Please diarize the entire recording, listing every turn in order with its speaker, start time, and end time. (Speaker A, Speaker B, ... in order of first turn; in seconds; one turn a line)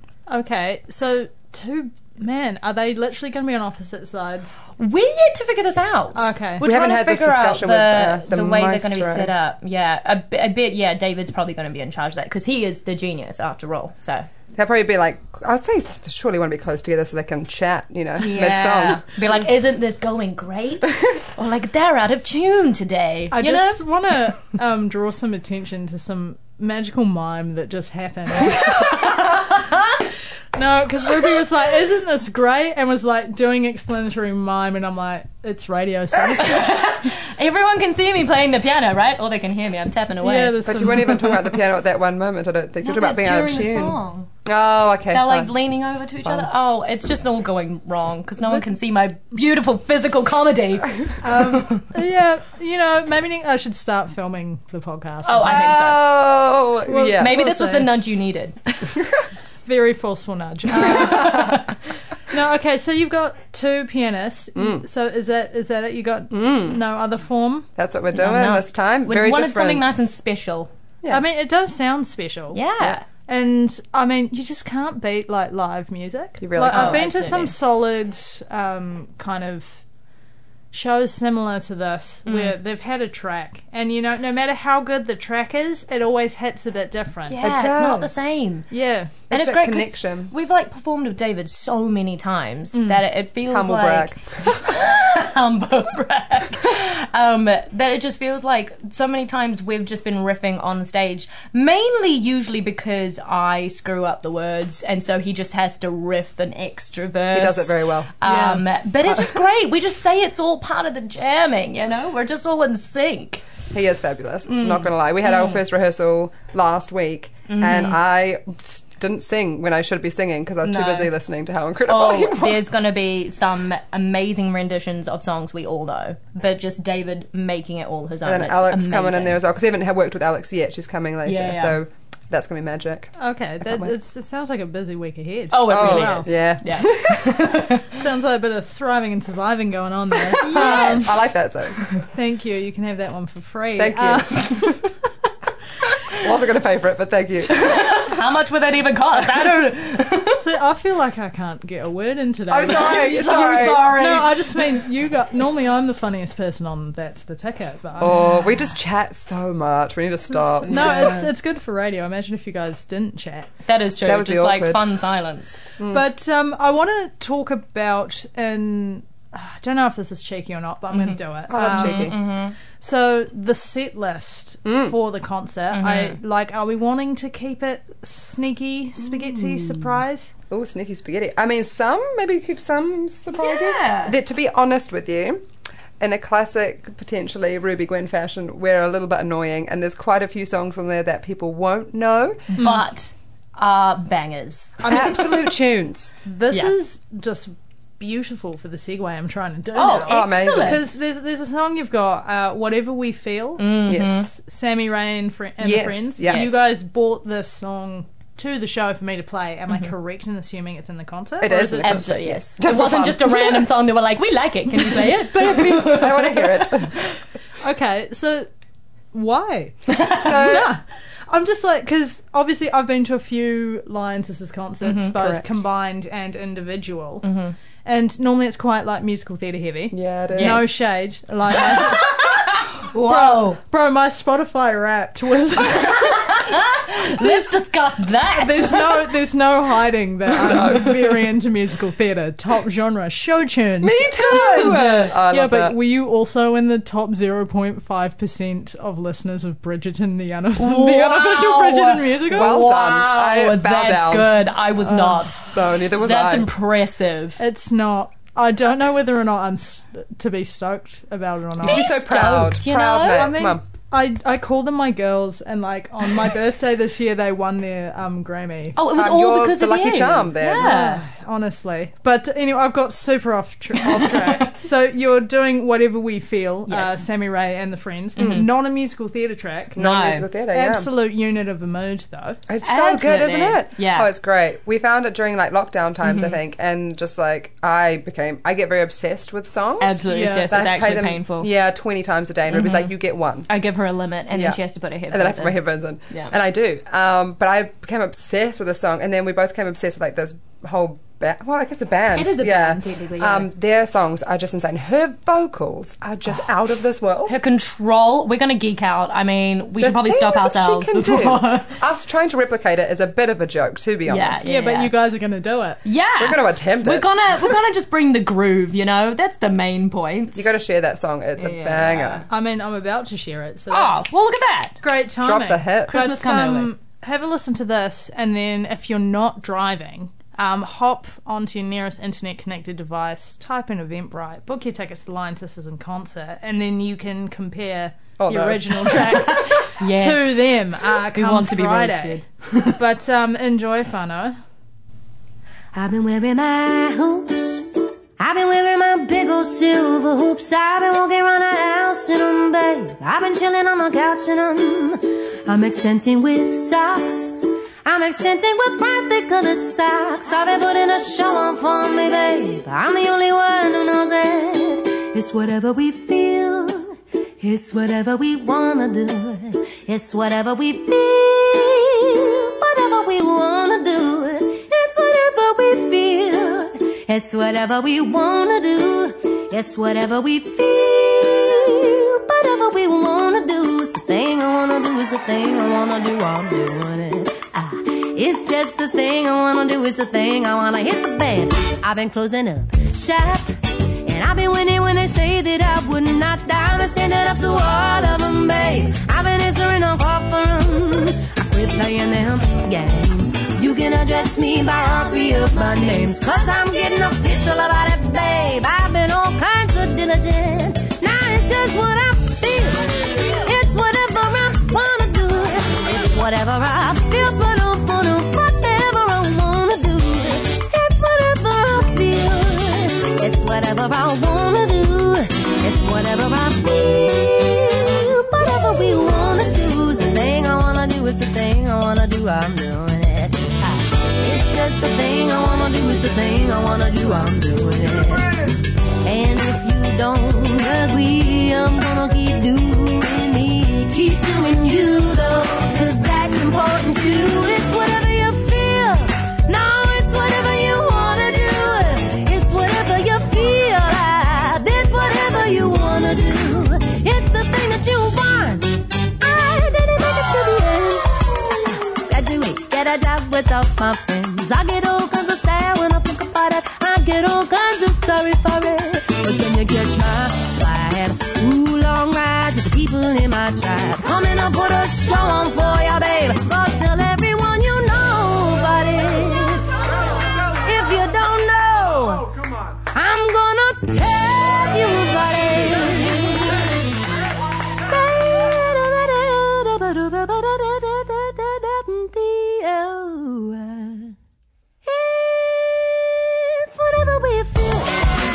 Speaker A: 0.3-4.6
Speaker B: 4.8-14.3
Speaker A: 6.1-6.7
Speaker C: 6.6-9.3
Speaker C: 14.6-19.1
Speaker B: 18.2-23.8
Speaker A: 23.3-29.2
Speaker B: 28.7-29.4
Speaker A: 30.5-36.8
Speaker B: 36.4-40.6
Speaker A: 40.2-41.4
Speaker C: 40.6-45.5
Speaker B: 42.8-44.3
Speaker B: 45.1-51.9
Speaker A: 51.2-55.7
Speaker B: 55.2-56.0
Speaker C: 55.4-57.4
Speaker A: 56.9-57.9
Speaker B: 57.1-58.6
Speaker A: 59.6-61.6
Speaker B: 60.8-61.7
Speaker C: 61.1-61.5
Speaker A: 62.3-67.7
Speaker C: 64.5-64.8
Speaker C: 66.3-66.8
Speaker C: 67.8-70.0
Speaker B: 68.1-70.7
Speaker A: 71.1-79.8
Speaker B: 72.5-73.0
Speaker C: 76.4-77.1
Speaker B: 76.6-77.5
Speaker A: 80.7-87.5
Speaker B: 82.2-82.5
Speaker B: 87.3-88.7
Speaker C: 87.4-88.2
Speaker A: 88.7-89.2
Speaker C: 89.3-90.3
Speaker B: 89.3-113.4
Speaker A: 92.7-93.0
Speaker C: 93.4-94.7
Speaker C: 107.3-108.1
Speaker A: 108.2-108.6
Speaker C: 113.7-122.7
Speaker B: 114.5-115.6
Speaker B: 117.5-118.0
Speaker B: 120.6-121.1
Speaker B: 121.8-129.4
Speaker C: 128.2-133.1
Speaker B: 131.2-131.8
Speaker A: 133.2-136.3
Speaker C: 133.6-133.9
Speaker B: 135.5-137.9
Speaker C: 135.7-137.2
Speaker A: 137.9-141.2
Speaker B: 140.3-141.2
Speaker C: 140.4-141.8
Speaker A: 142.1-144.8
Speaker C: 143.8-144.7
Speaker C: 146.2-148.0
Speaker B: 147.5-150.4
Speaker A: 150.4-158.4
Speaker C: 152.5-153.9
Speaker B: 152.6-154.8
Speaker C: 158.0-161.2
Speaker A: 160.4-163.5
Speaker B: 160.6-161.3
Speaker B: 163.7-165.7
Speaker C: 164.0-164.9
Speaker C: 165.8-166.1
Speaker A: 165.9-172.2
Speaker B: 170.9-172.5
Speaker C: 171.5-172.1
Speaker A: 172.7-180.3
Speaker C: 174.6-174.9
Speaker B: 175.7-176.2
Speaker C: 179.2-179.8
Speaker C: 180.5-185.4
Speaker B: 183.3-184.2
Speaker C: 186.0-192.5
Speaker A: 192.5-192.8
Speaker B: 192.6-195.2
Speaker A: 194.8-195.2
Speaker C: 194.9-196.1
Speaker A: 196.2-212.4
Speaker B: 199.7-200.8
Speaker C: 200.0-200.8
Speaker B: 203.6-204.3
Speaker C: 203.9-204.2
Speaker C: 205.6-206.5
Speaker B: 206.3-206.6
Speaker C: 211.4-213.7
Speaker B: 211.8-216.9
Speaker C: 215.4-216.9
Speaker A: 217.6-218.5
Speaker A: 219.1-227.3
Speaker B: 219.9-220.3
Speaker C: 220.2-220.7
Speaker B: 224.8-225.1
Speaker B: 227.2-227.5
Speaker A: 227.8-232.4
Speaker C: 229.9-230.7
Speaker B: 230.3-230.7
Speaker B: 231.7-233.6
Speaker A: 232.9-236.4
Speaker B: 235.7-239.1
Speaker A: 238.3-252.6
Speaker C: 240.3-241.1
Speaker C: 243.8-245.8
Speaker B: 244.1-245.1
Speaker B: 250.6-257.4
Speaker C: 252.3-254.3
Speaker A: 254.8-255.5
Speaker C: 255.5-256.5
Speaker A: 257.4-261.9
Speaker C: 261.6-263.6
Speaker B: 261.6-263.4
Speaker A: 263.1-268.8
Speaker B: 268.8-271.0
Speaker C: 268.9-270.7
Speaker A: 270.5-279.8
Speaker B: 273.8-274.4
Speaker B: 276.7-277.0
Speaker B: 278.2-278.5
Speaker C: 279.8-280.9
Speaker B: 279.8-280.2
Speaker A: 280.5-282.4
Speaker C: 282.5-293.5
Speaker B: 282.6-284.1
Speaker B: 286.0-286.4
Speaker B: 289.8-291.5
Speaker A: 290.1-290.5
Speaker B: 292.5-292.9
Speaker B: 293.5-295.6
Speaker C: 294.3-307.4
Speaker B: 302.1-303.5
Speaker B: 307.3-311.8
Speaker C: 309.8-314.4
Speaker B: 314.1-314.9
Speaker A: 314.4-315.8
Speaker B: 315.8-320.5
Speaker C: 316.2-317.1
Speaker C: 320.3-322.2
Speaker B: 321.4-322.2
Speaker A: 322.3-324.1
Speaker B: 323.7-324.8
Speaker A: 324.8-342.2
Speaker C: 325.2-326.1
Speaker B: 325.9-326.7
Speaker C: 338.2-339.2
Speaker B: 338.9-342.7
Speaker A: 342.8-344.4
Speaker D: 345.7-347.7
Speaker D: 348.2-438.5
Speaker D: 439.0-479.7
Speaker D: 480.5-482.3
Speaker D: 482.9-486.6
Speaker D: 487.8-494.1
Speaker D: 494.8-498.1